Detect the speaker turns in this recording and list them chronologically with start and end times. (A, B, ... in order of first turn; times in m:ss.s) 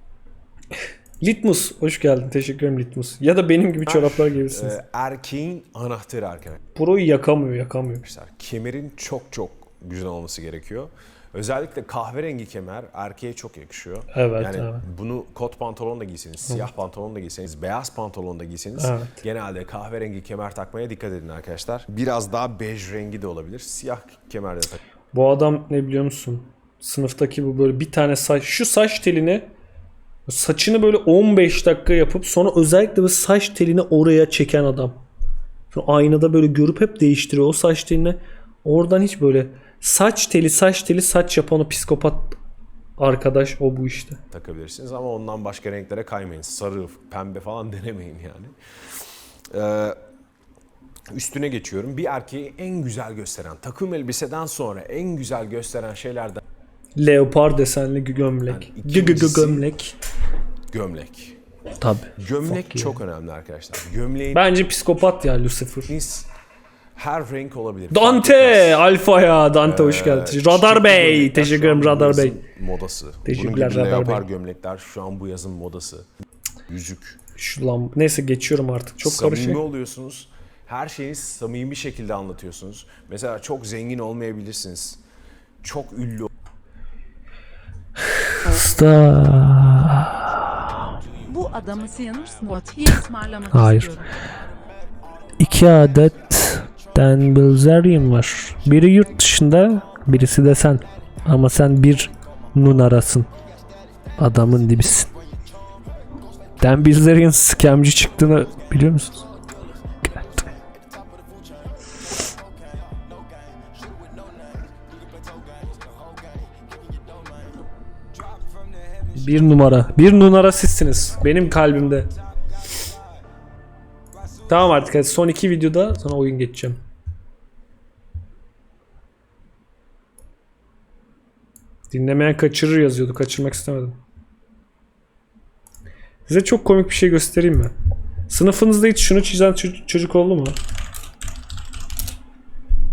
0:01.2-0:04.8 A
0:03.9-0:06.6 B
0:06.8-0:08.1 A
0:08.0-0:24.8 B
0:14.1-0:14.8 A
0:18.8-0:19.2 A
0:25.1-0:29.5 A
0:30.3-0:35.0 A
0:35.7-0:42.4 A
0:43.0-0:44.2 A
0:44.3-0:48.6 B
0:49.5-0:50.0 B
0:51.1-0:56.4 B
0:57.0-1:00.0 A
0:58.5-0:59.7 B
1:00.7-1:01.4 B
1:01.8-1:03.0 A
1:02.2-1:04.5 B
1:04.3-1:05.9 A
1:05.9-1:06.3 B
1:07.0-1:08.9 B
1:07.9-1:12.4 A
1:09.6-1:16.1 B
1:13.2-1:14.2 A
1:16.7-1:17.2 B
1:17.4-1:19.6 A
1:19.0-1:25.0 B
1:25.6-1:26.3 B
1:28.3-1:30.4 A
1:31.2-1:34.1 C
1:33.5-1:34.0 A
1:35.4-1:43.3 A
1:44.2-1:45.1 A
1:46.6-1:49.2 A
1:59.1-2:02.1 A
2:04.5-2:06.8 A
2:11.9-2:14.0 A
2:16.3-2:17.7 A
2:18.3-2:20.6 A